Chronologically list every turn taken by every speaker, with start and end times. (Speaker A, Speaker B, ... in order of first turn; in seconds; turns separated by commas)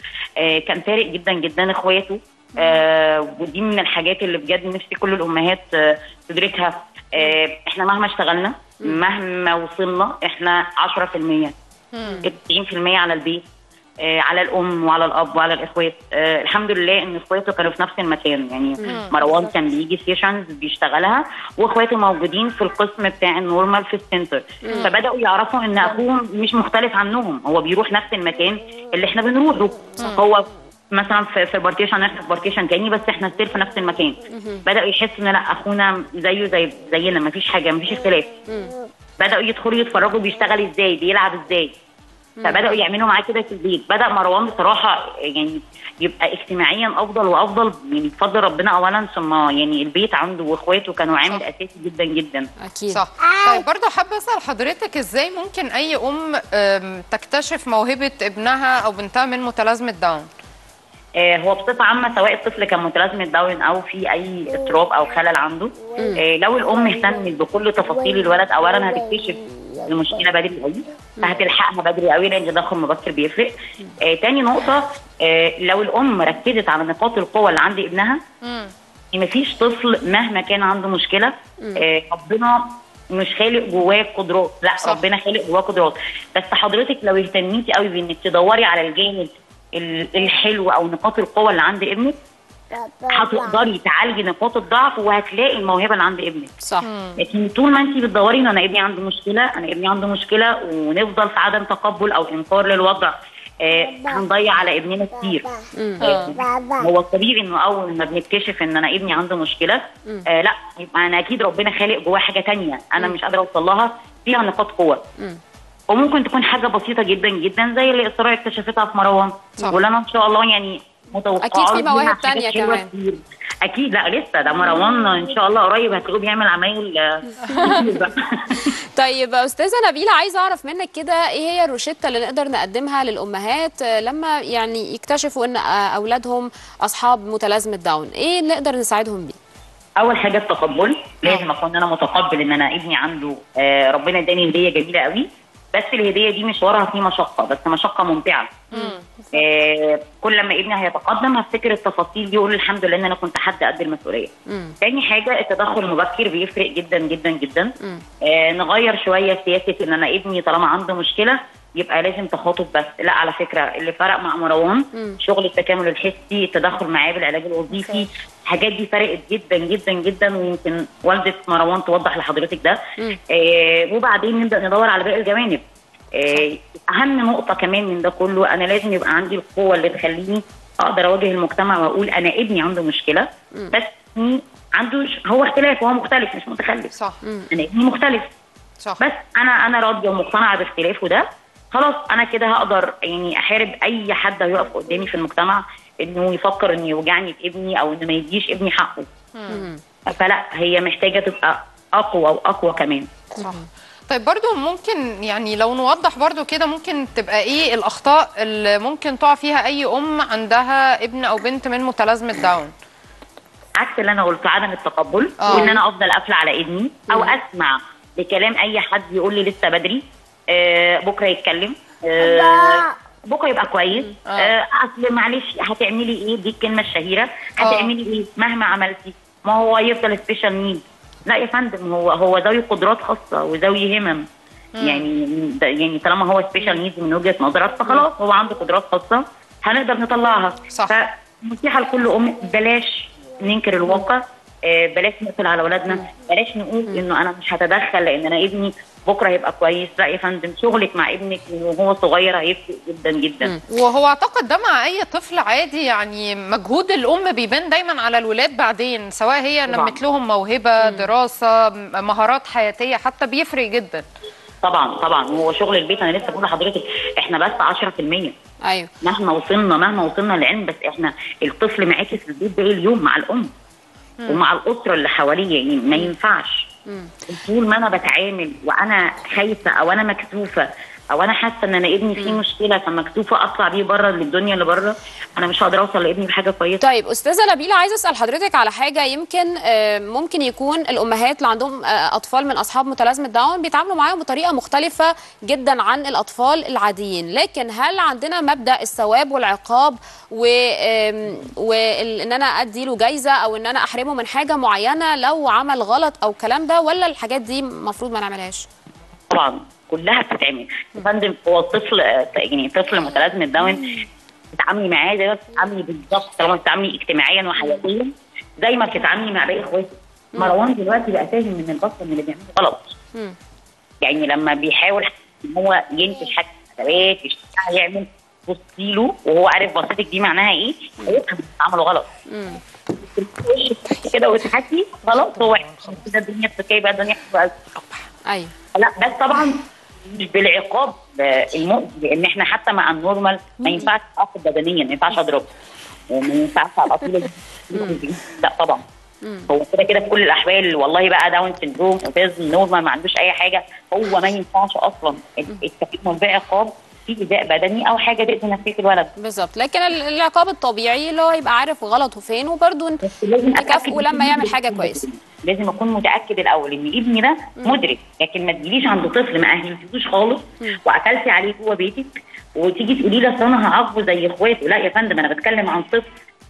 Speaker A: 0.4-11.5, Speaker B: 11.9-12.2, Speaker A: 12.2-13.4, Speaker A: 14.0-38.3, Speaker B: 18.8-19.1, Speaker C: 24.6-24.9, Speaker C: 34.3-34.6, Speaker C: 38.5-38.7, Speaker A: 39.2-41.7, Speaker C: 42.4-42.8, Speaker A: 42.4-52.5, Speaker C: 52.6-53.0, Speaker B: 52.9-60.3, Speaker A: 61.2-78.2, Speaker C: 66.0-66.2, Speaker B: 78.4-78.7, Speaker A: 79.1-92.2, Speaker B: 84.8-85.0, Speaker A: 93.1-96.5, Speaker B: 96.8-97.2, Speaker A: 97.2-105.5, Speaker C: 105.8-106.0, Speaker B: 106.0-106.4, Speaker A: 106.0-115.0, Speaker A: 115.9-128.7, Speaker C: 121.4-122.9, Speaker C: 127.5-127.9, Speaker C: 128.6-139.4, Speaker A: 140.0-148.6, Speaker B: 148.7-149.0, Speaker A: 149.3-157.7, Speaker C: 154.5-154.8, Speaker A: 158.2-172.8, Speaker C: 164.9-165.2, Speaker A: 173.3-175.6, Speaker A: 176.2-186.9, Speaker B: 186.9-187.2, Speaker C: 187.2-187.5, Speaker A: 187.5-188.3, Speaker A: 189.0-199.1, Speaker B: 199.4-199.7, Speaker C: 199.5-199.8, Speaker A: 200.1-203.1, Speaker C: 203.4-203.6, Speaker B: 203.4-212.7, Speaker A: 213.8-234.3, Speaker B: 215.4-215.8, Speaker C: 217.1-217.4, Speaker B: 224.2-224.5, Speaker B: 227.6-227.9, Speaker B: 234.8-235.1, Speaker A: 234.8-253.5, Speaker B: 240.7-241.0, Speaker B: 253.7-264.1, Speaker A: 259.7-260.0, Speaker C: 260.8-261.1, Speaker A: 264.6-268.4, Speaker C: 268.6-268.9, Speaker A: 269.0-273.5, Speaker A: 274.3-276.7, Speaker A: 277.3-286.8, Speaker C: 282.2-282.4, Speaker C: 286.8-308.7, Speaker A: 309.3-322.9, Speaker A: 324.0-332.1, Speaker C: 332.3-332.6, Speaker A: 333.0-337.6, Speaker C: 338.3-338.5, Speaker A: 338.8-345.5, Speaker A: 346.1-348.8, Speaker C: 349.2-349.5, Speaker A: 349.5-359.1, Speaker C: 359.2-365.0, Speaker A: 363.1-376.1